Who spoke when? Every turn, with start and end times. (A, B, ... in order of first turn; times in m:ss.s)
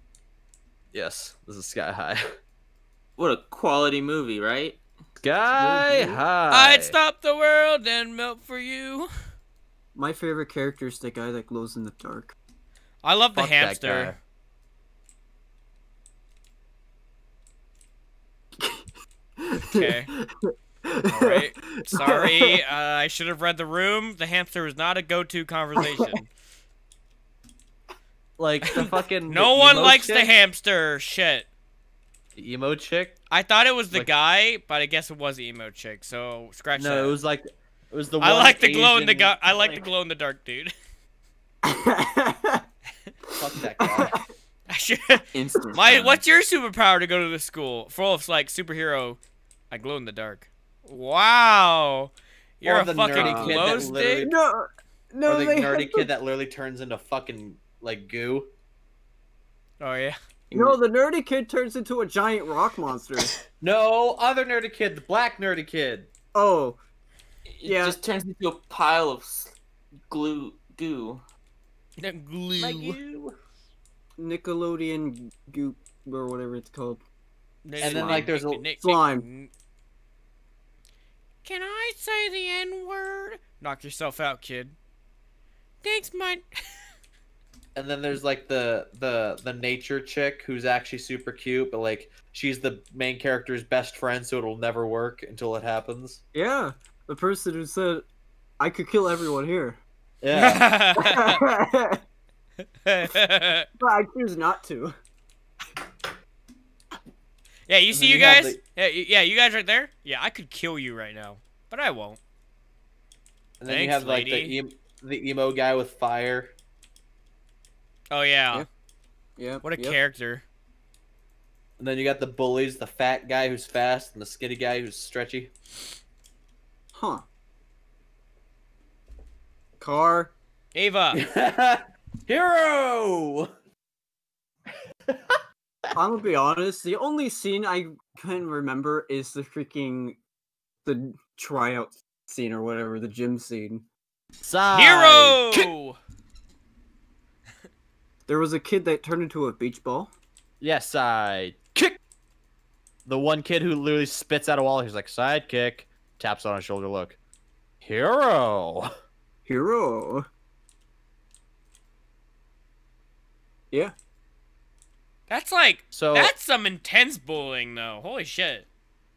0:00.9-0:02.2 A
0:03.2-0:04.8 B
0:05.2-0:07.0 A
0:05.5-0:06.2 C
0:06.5-0:09.1 D
0:09.9-0:12.3 C
0:13.0-0:14.2 D
0:13.3-0:14.2 A
0:18.6-0:18.9 C
0:19.4-0:22.6 C
0:19.6-0:20.1 D
0:21.0-0:26.3 D
0:25.8-0:26.1 C
0:28.4-0:30.3 A
0:28.6-0:31.5 D
0:32.4-0:33.2 A
0:33.3-0:37.2 D
0:36.8-0:39.9 A
0:38.2-0:40.7 D
0:41.6-0:42.6 C
0:43.4-0:44.2 A
0:43.6-0:44.2 C
0:44.7-0:45.2 D
0:45.3-0:46.2 B
0:45.7-0:54.2 D
0:52.6-0:54.3 A
0:53.2-0:53.6 B
0:54.2-0:56.1 C
0:55.2-0:58.5 A
0:59.8-1:00.2 D
1:00.5-1:00.8 B
1:00.5-1:03.3 C
1:03.6-1:06.1 A
1:06.3-1:06.8 C
1:07.5-1:09.5 B
1:07.6-1:08.0 C
1:10.1-1:11.2 B
1:12.0-1:13.0 D
1:12.6-1:13.4 A
1:14.2-1:17.0 C
1:17.6-1:19.5 D
1:17.8-1:18.3 B
1:17.8-1:18.6 A
1:18.8-1:19.3 C
1:21.4-1:24.7 D
1:25.8-1:26.4 D
1:27.7-1:36.2 A
1:36.3-1:38.0 C
1:38.6-1:39.8 C
1:40.2-1:40.6 A
1:40.3-1:41.4 D
1:41.0-1:42.0 C
1:42.8-1:43.7 D
1:43.8-1:44.9 C
1:47.7-1:52.2 D
1:47.9-1:48.6 A
1:53.6-1:56.5 A
1:53.7-1:54.6 D
1:58.1-1:58.6 D
1:59.4-2:00.0 C
1:59.6-2:00.4 D
2:01.8-2:05.5 A
2:06.9-2:07.2 C
2:09.8-2:10.3 C
2:10.7-2:11.2 D
2:11.1-2:13.5 A
2:15.1-2:15.4 A
2:15.9-2:20.2 C
2:20.8-2:23.9 C
2:24.4-2:25.7 A
2:24.7-2:26.0 D
2:28.3-2:30.1 C
2:30.6-2:32.0 A
2:33.0-2:37.2 A
2:37.8-2:38.9 A
2:39.4-2:40.3 C
2:45.3-2:48.6 D
2:45.9-2:46.3 A